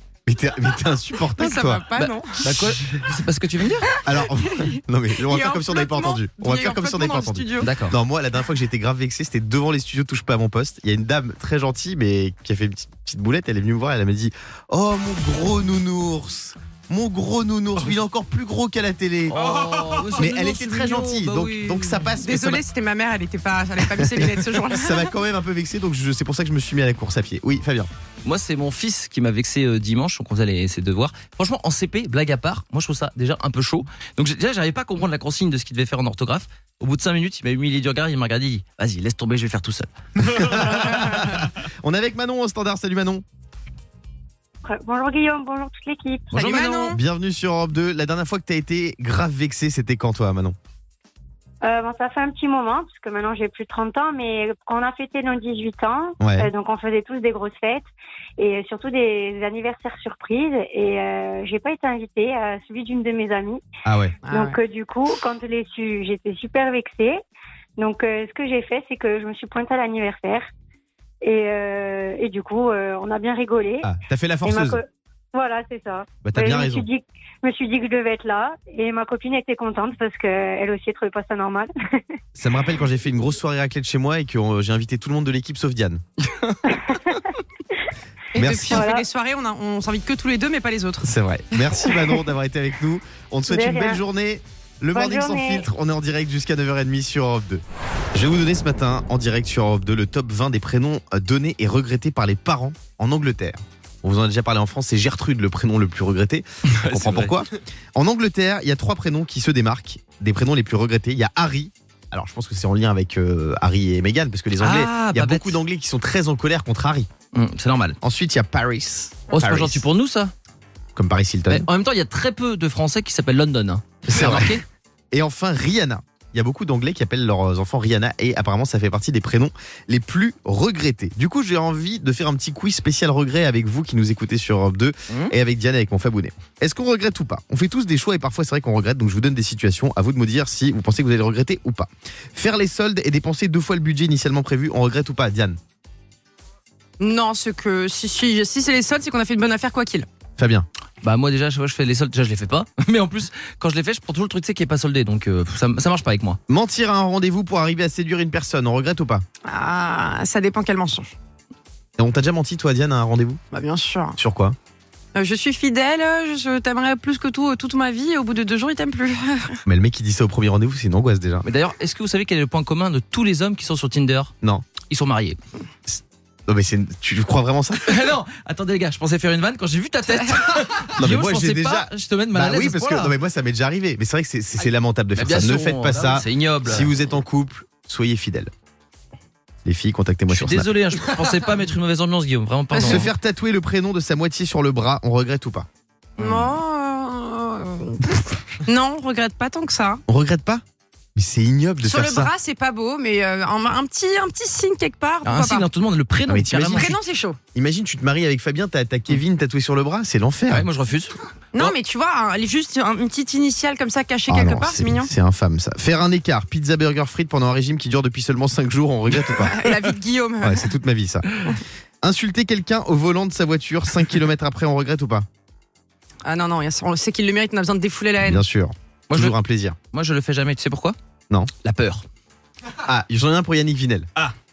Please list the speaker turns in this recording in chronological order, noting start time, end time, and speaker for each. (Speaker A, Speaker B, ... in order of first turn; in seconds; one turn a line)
Speaker A: 0.3-1.9
Speaker B: 1.3-2.4
Speaker C: 2.0-4.0
Speaker A: 4.0-19.4
Speaker B: 4.4-7.7
Speaker C: 7.6-8.0
Speaker C: 19.3-22.1
Speaker A: 20.1-22.6
Speaker B: 22.2-25.1
Speaker A: 23.9-27.9
Speaker C: 28.2-40.4
Speaker A: 40.4-43.2
Speaker D: 44.6-46.3
Speaker C: 46.3-47.0
Speaker B: 46.3-47.0
Speaker A: 46.9-50.6
Speaker D: 51.6-57.8
Speaker A: 56.2-56.5
Speaker D: 58.4-63.6
Speaker A: 63.9-64.2
Speaker B: 64.2-64.6
Speaker D: 64.3-67.2
Speaker D: 67.8-70.5
Speaker D: 71.2-73.9
Speaker A: 73.8-74.8
Speaker D: 74.4-82.0
Speaker A: 76.2-76.9
Speaker A: 82.4-86.0
Speaker D: 86.7-87.2
Speaker B: 88.3-92.0
Speaker A: 88.3-88.8
Speaker D: 88.7-89.0
Speaker A: 91.0-97.6
Speaker D: 93.5-94.0
Speaker D: 95.0-95.7
Speaker A: 98.1-117.1
Speaker C: 106.8-107.4
Speaker C: 114.6-115.6
Speaker C: 117.3-118.0
Speaker A: 118.0-119.8
Speaker C: 119.3-120.3
Speaker A: 121.0-121.7
Speaker C: 121.5-124.7
Speaker A: 124.1-124.6
Speaker A: 125.1-145.6
Speaker B: 147.0-150.1
Speaker A: 150.4-150.7
Speaker C: 151.0-156.4
Speaker A: 156.5-159.2
Speaker B: 159.4-161.1
Speaker A: 162.0-163.4
Speaker B: 163.5-164.2
Speaker A: 164.2-164.6
Speaker B: 165.1-169.6
Speaker A: 169.7-171.4
Speaker C: 171.4-174.3
Speaker A: 174.4-174.7
Speaker C: 174.8-175.4
Speaker A: 175.9-178.0
Speaker C: 177.9-183.1
Speaker A: 181.0-188.5
Speaker C: 185.2-186.9
Speaker A: 189.7-190.7
Speaker C: 190.3-193.1
Speaker B: 192.7-193.0
Speaker A: 192.8-195.7
Speaker C: 196.2-196.6
Speaker B: 196.2-200.0
Speaker A: 200.1-200.6
Speaker A: 201.2-202.3
Speaker B: 201.8-205.7
Speaker C: 205.2-206.9
Speaker A: 206.3-207.0
Speaker B: 206.8-207.4
Speaker A: 207.6-210.7
Speaker C: 210.5-211.2
Speaker B: 211.5-215.1
Speaker A: 214.3-219.8
Speaker B: 219.3-220.7
Speaker A: 220.4-221.3
Speaker A: 222.0-225.3
Speaker B: 226.2-228.4
Speaker A: 228.2-229.8
Speaker C: 229.1-229.4
Speaker C: 229.9-231.0
Speaker C: 231.6-232.0
Speaker A: 232.8-234.1